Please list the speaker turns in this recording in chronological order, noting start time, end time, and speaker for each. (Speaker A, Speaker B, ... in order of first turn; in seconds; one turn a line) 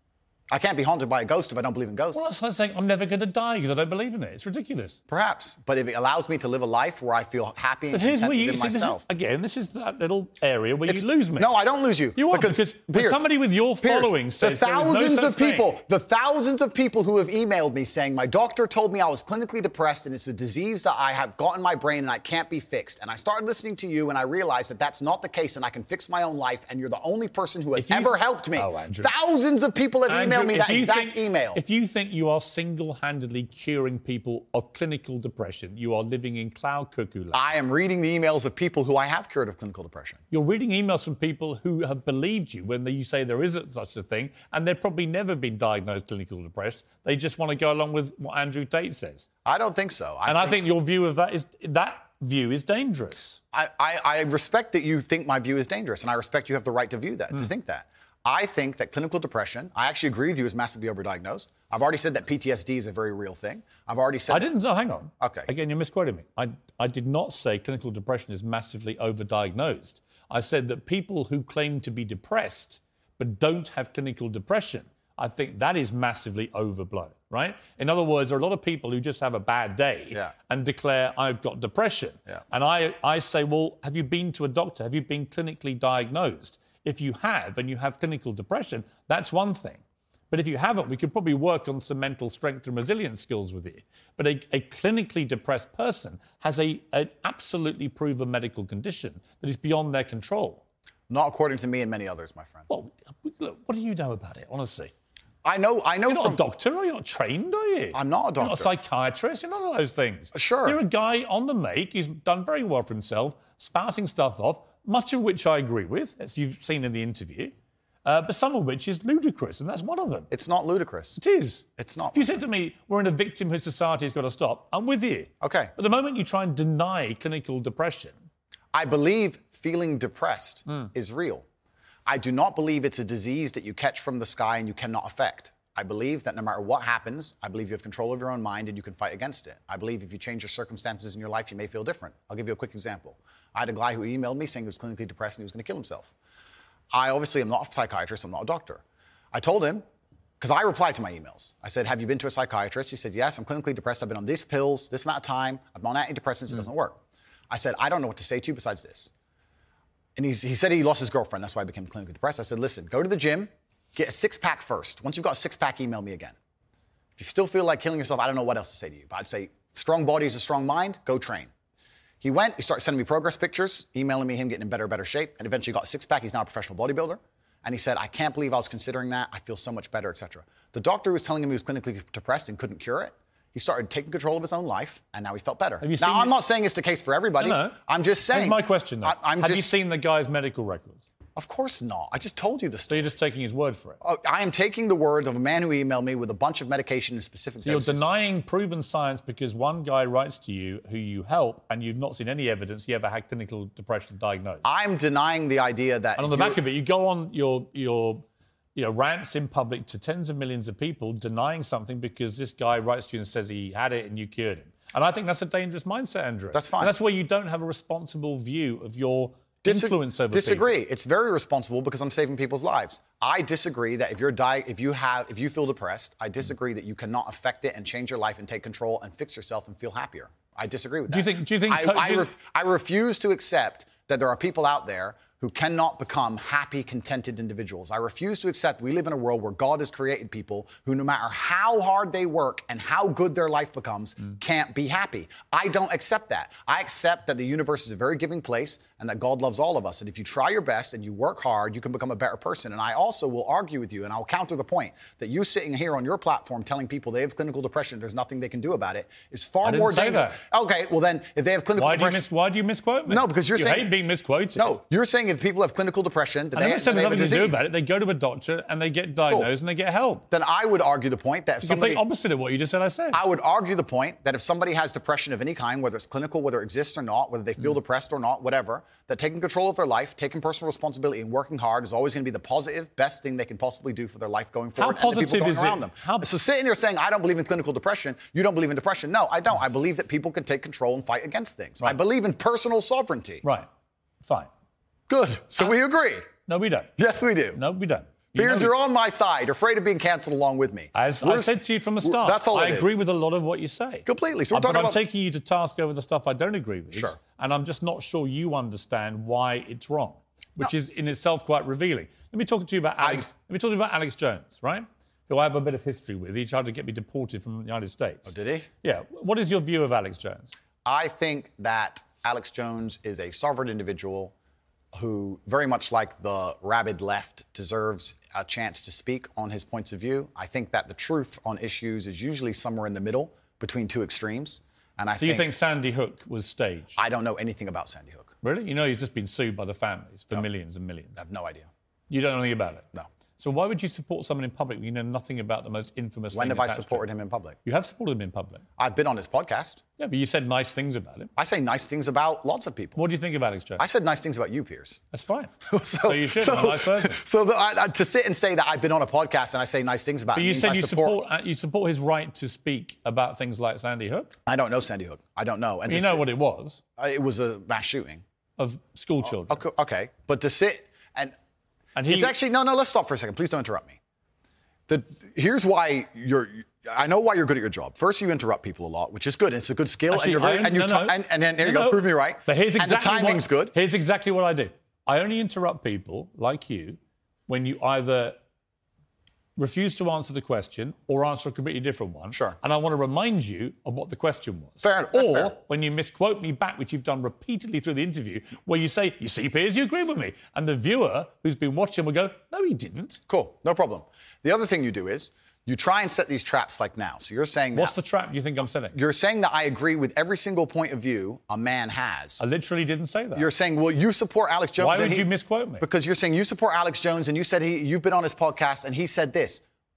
Speaker A: 0.5-2.3
Speaker B: 2.1-5.0
Speaker A: 5.1-9.0
Speaker B: 7.9-11.5
Speaker A: 10.9-13.2
Speaker B: 12.2-15.7
Speaker A: 13.8-31.6
Speaker B: 27.8-29.1
Speaker B: 30.1-37.4
Speaker A: 37.3-40.2
Speaker B: 40.3-49.3
Speaker A: 49.5-50.6
Speaker B: 50.2-53.4
Speaker A: 53.5-64.5
Speaker B: 64.3-100.6
Speaker A: 65.2-65.5
Speaker A: 101.1-102.7
Speaker B: 102.7-104.9
Speaker A: 105.4-106.4
Speaker B: 106.1-117.5
Speaker A: 107.9-108.7
Speaker A: 110.3-110.8
Speaker B: 118.0-120.3
Speaker A: 120.3-121.2
Speaker B: 121.2-128.2
Speaker A: 121.8-122.4
Speaker A: 125.4-125.7
Speaker A: 128.7-131.4
Speaker A: 132.1-146.1
Speaker A: 146.9-149.8
Speaker A: 150.4-159.1
Speaker A: 160.2-166.4
Speaker A: 167.2-171.5
Speaker A: 172.2-189.7
Speaker B: 185.8-186.4
Speaker B: 187.4-187.8
Speaker B: 188.3-191.0
Speaker A: 191.4-193.1
Speaker B: 192.9-194.0
Speaker A: 194.0-198.0
Speaker B: 197.6-204.7
Speaker A: 204.6-206.6
Speaker B: 206.2-208.2
Speaker B: 208.8-220.7
Speaker A: 216.5-216.9
Speaker A: 219.6-262.3
Speaker B: 231.1-232.3
Speaker B: 259.6-260.4
Speaker B: 261.8-264.8
Speaker A: 263.1-263.9
Speaker A: 264.6-267.7
Speaker B: 266.6-270.2
Speaker A: 270.3-272.0
Speaker B: 271.6-273.2
Speaker A: 273.1-293.4
Speaker B: 284.8-286.3
Speaker B: 293.4-293.7
Speaker B: 294.2-294.5
Speaker A: 295.1-296.3
Speaker B: 296.5-296.9
Speaker A: 297.0-297.6
Speaker B: 297.5-298.7
Speaker A: 298.3-303.0
Speaker B: 300.9-320.5
Speaker A: 304.1-305.0
Speaker A: 306.9-307.2
Speaker A: 313.0-313.3
Speaker A: 318.3-318.7
Speaker A: 320.9-324.3
Speaker A: 324.9-335.5
Speaker B: 335.2-337.0
Speaker A: 337.0-338.3
Speaker B: 338.4-341.2
Speaker A: 341.2-341.7
Speaker B: 342.1-342.9
Speaker B: 343.4-347.1
Speaker A: 346.3-347.6
Speaker B: 347.6-348.6
Speaker A: 348.8-349.8
Speaker B: 350.0-351.3
Speaker A: 351.4-353.0
Speaker B: 353.0-353.9
Speaker A: 353.8-355.0
Speaker B: 355.1-357.2
Speaker A: 355.6-361.2
Speaker B: 360.3-364.3
Speaker A: 364.5-366.3
Speaker B: 365.9-366.8
Speaker A: 367.0-368.2
Speaker B: 368.6-369.6
Speaker A: 369.2-371.4
Speaker B: 371.9-372.3
Speaker A: 372.1-374.0
Speaker A: 374.9-383.8
Speaker B: 380.1-388.4
Speaker B: 389.6-403.2
Speaker A: 392.3-392.6
Speaker A: 394.8-395.6
Speaker A: 403.3-407.9
Speaker B: 407.7-409.0
Speaker A: 408.9-412.4
Speaker B: 412.4-413.5
Speaker A: 413.4-415.3
Speaker B: 414.8-415.9
Speaker A: 415.8-419.6